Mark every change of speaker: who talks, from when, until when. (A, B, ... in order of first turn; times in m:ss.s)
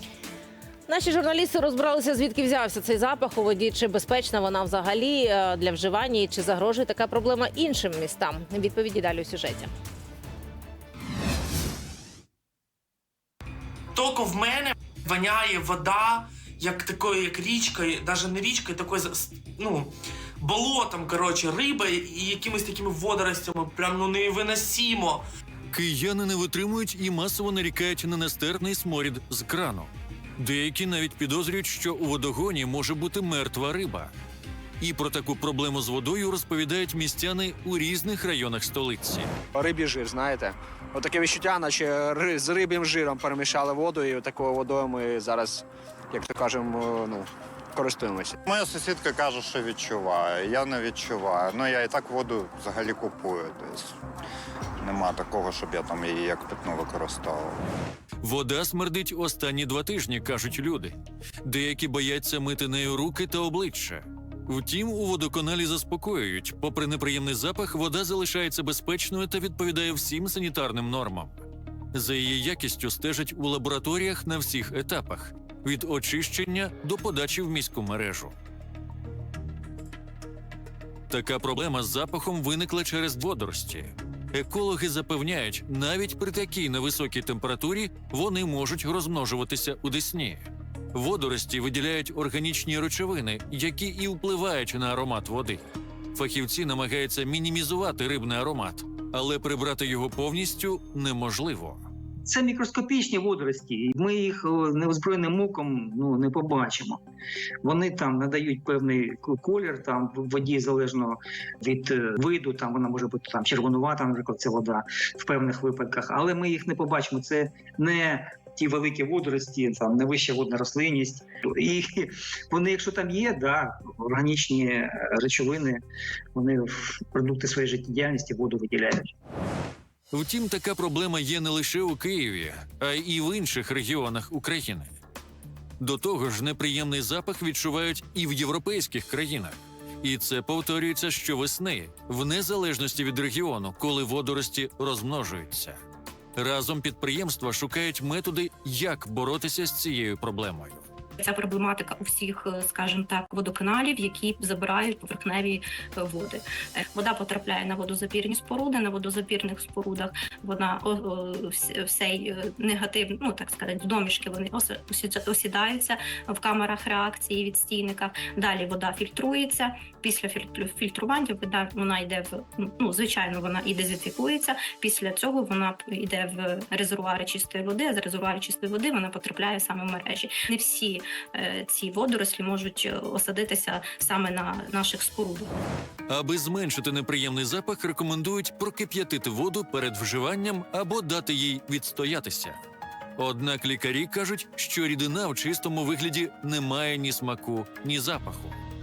0:00.9-0:09.7 A
0:13.9-0:25.2 B
0:25.7-0:34.1 C
0:34.8-0:39.3 C
0:39.5-0:48.4 D
0:48.4-0:53.9 E
0:54.8-0:57.6 E
0:58.2-1:18.3 C
1:21.1-1:41.8 C
1:42.3-1:47.0 F
1:47.6-2:05.8 F
2:06.3-2:09.1 F
2:10.1-2:14.9 C
2:15.8-2:25.8 C
2:26.4-2:30.8 C
2:31.2-3:05.5 G
3:06.1-3:12.6 C
3:13.2-3:18.6 C